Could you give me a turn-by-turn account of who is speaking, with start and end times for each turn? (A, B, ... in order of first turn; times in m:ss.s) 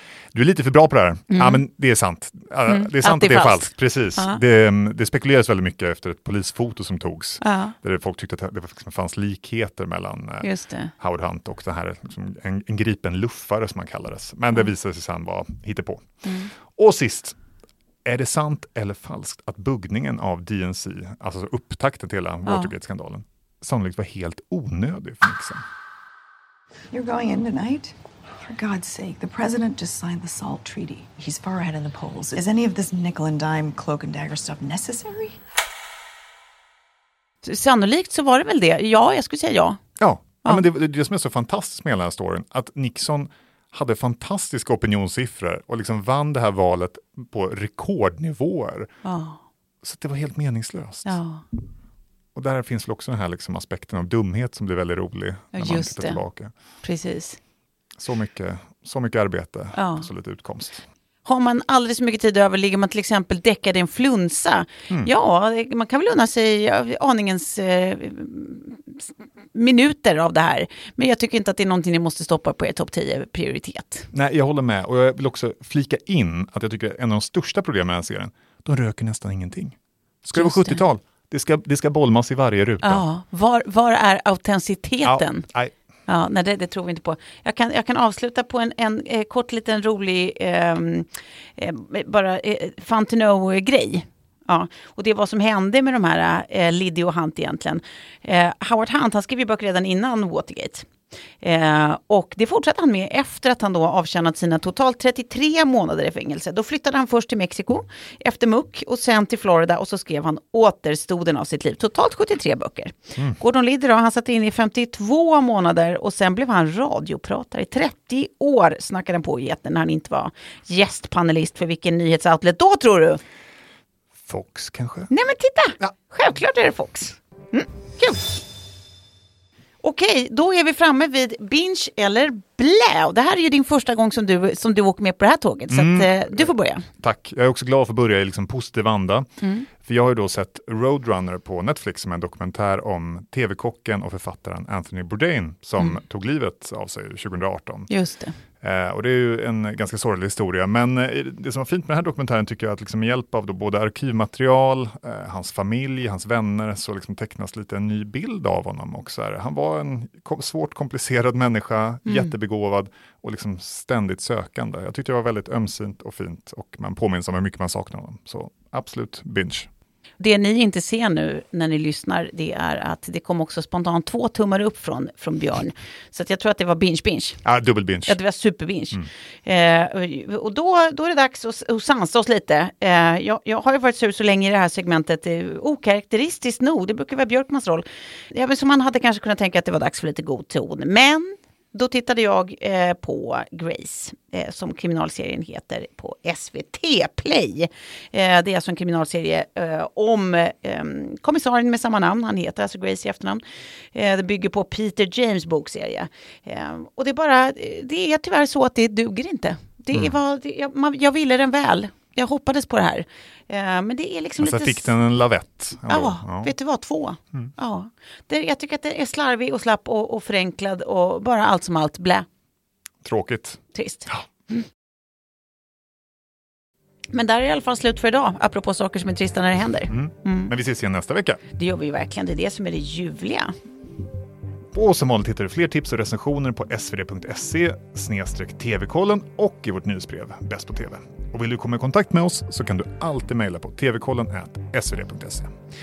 0:00.3-0:17.4 A
0:01.3-0:01.6 B
0:02.6-0:04.4 B
0:07.4-0:07.7 B
0:10.4-0:10.9 B
0:16.2-0:16.5 B
0:18.0-0:25.6 A
0:22.4-0:22.7 B
0:26.9-0:35.4 C
0:37.4-0:39.8 B
0:40.0-0:48.9 A
0:49.0-0:49.4 B
0:49.8-0:51.2 A
0:51.0-0:51.4 B
0:52.3-0:56.5 A
0:55.5-0:56.2 B
0:56.8-0:57.4 B
0:58.0-1:00.8 A
0:59.7-1:00.1 B
1:01.2-1:09.0 B
1:09.5-1:14.1 B
1:14.1-1:23.0 A
1:20.3-1:20.8 B
1:22.8-1:25.5 B
1:25.0-1:25.7 A
1:26.1-1:40.9 B
1:41.4-2:03.2 B
2:04.2-2:05.1 A
2:05.1-2:08.4 B
2:09.8-2:16.9 B
2:15.7-2:19.3 A
2:19.4-2:19.7 B
2:19.8-2:27.9 A
2:27.9-2:28.4 B
2:28.6-2:49.7 A
2:42.0-2:42.3 B
2:50.2-2:57.4 B
2:57.4-2:58.2 A
2:58.1-3:23.4 B
3:23.9-3:34.9 B
3:34.4-3:36.5 A
3:35.9-3:42.3 B
3:43.0-3:44.2 A
3:43.7-3:44.6 B
3:47.1-3:50.5 B
3:49.9-3:51.4 A
3:51.6-3:53.6 B
3:54.7-4:05.5 A